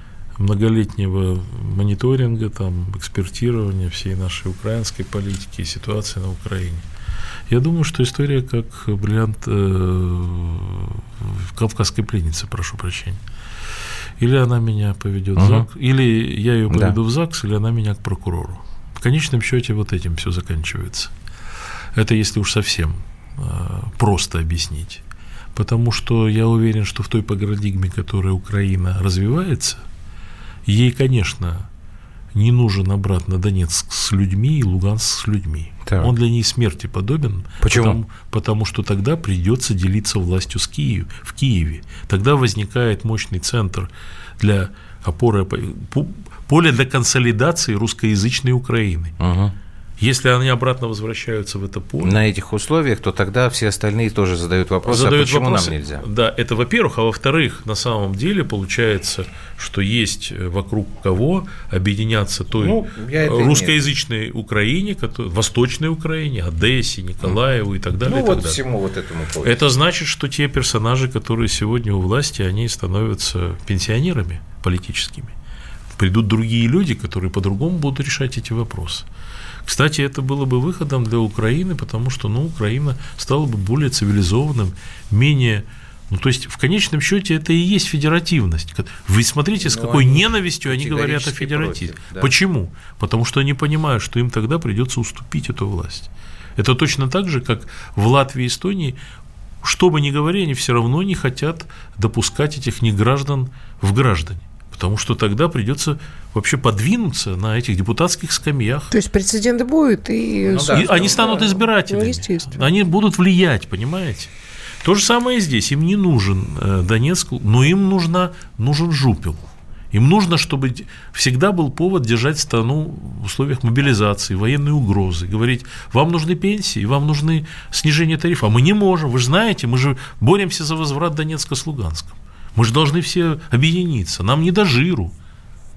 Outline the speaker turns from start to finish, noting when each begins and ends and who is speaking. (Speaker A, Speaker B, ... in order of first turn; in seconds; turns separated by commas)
Speaker A: 0.4-6.8, Speaker A: 7.5-13.2, Speaker A: 14.2-21.1, Speaker B: 15.3-15.7, Speaker B: 16.7-17.0, Speaker A: 21.9-25.0, Speaker A: 25.5-29.8, Speaker A: 30.6-31.7, Speaker A: 32.3-49.1, Speaker B: 35.9-36.1, Speaker B: 37.6-38.0, Speaker B: 49.2-49.5, Speaker A: 50.0-52.2, Speaker B: 52.0-56.0, Speaker A: 54.9-68.6, Speaker B: 62.5-63.8, Speaker B: 68.0-69.6, Speaker A: 69.4-75.3, Speaker A: 76.0-79.0, Speaker A: 79.7-99.0, Speaker B: 89.6-92.3, Speaker A: 99.6-108.9, Speaker C: 108.9-112.6, Speaker B: 110.5-111.6, Speaker A: 110.6-114.3, Speaker A: 114.8-135.1